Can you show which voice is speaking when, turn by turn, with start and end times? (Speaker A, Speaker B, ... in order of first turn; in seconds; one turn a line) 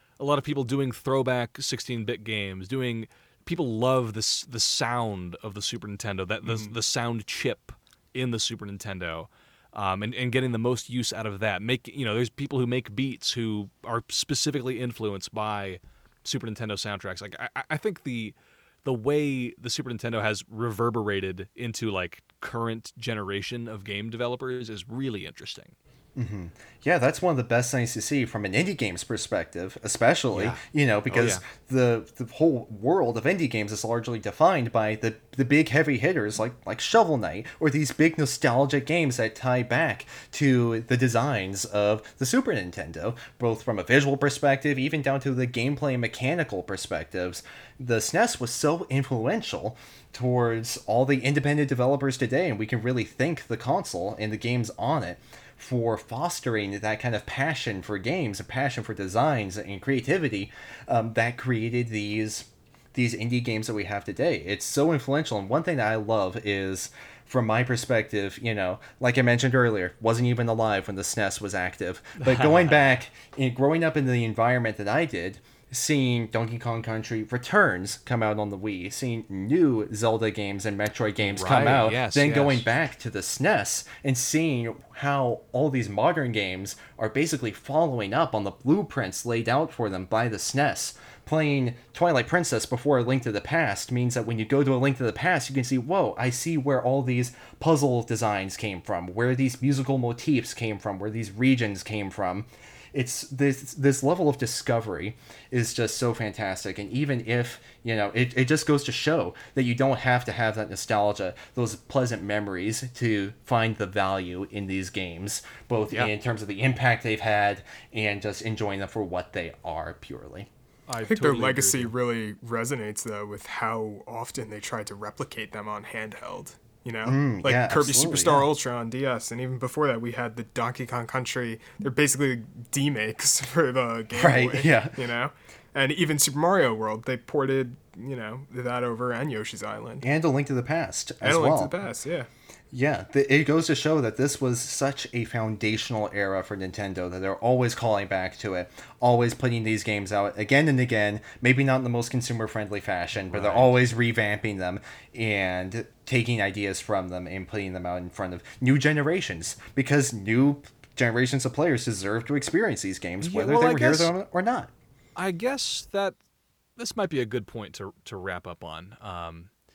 Speaker A: 0.2-25.7
Speaker B: 6.4-6.7
Speaker C: 26.1-120.5
Speaker A: 30.3-31.4
Speaker A: 72.2-72.9
Speaker A: 81.2-82.7
Speaker A: 120.9-121.9
Speaker B: 121.0-140.1
Speaker C: 127.0-128.5
Speaker C: 134.1-134.9
Speaker C: 140.0-141.7
Speaker B: 141.2-142.3
Speaker C: 142.7-164.7
Speaker A: 153.2-153.7
Speaker A: 163.2-164.1
Speaker A: 165.2-166.2
Speaker A: 166.8-169.5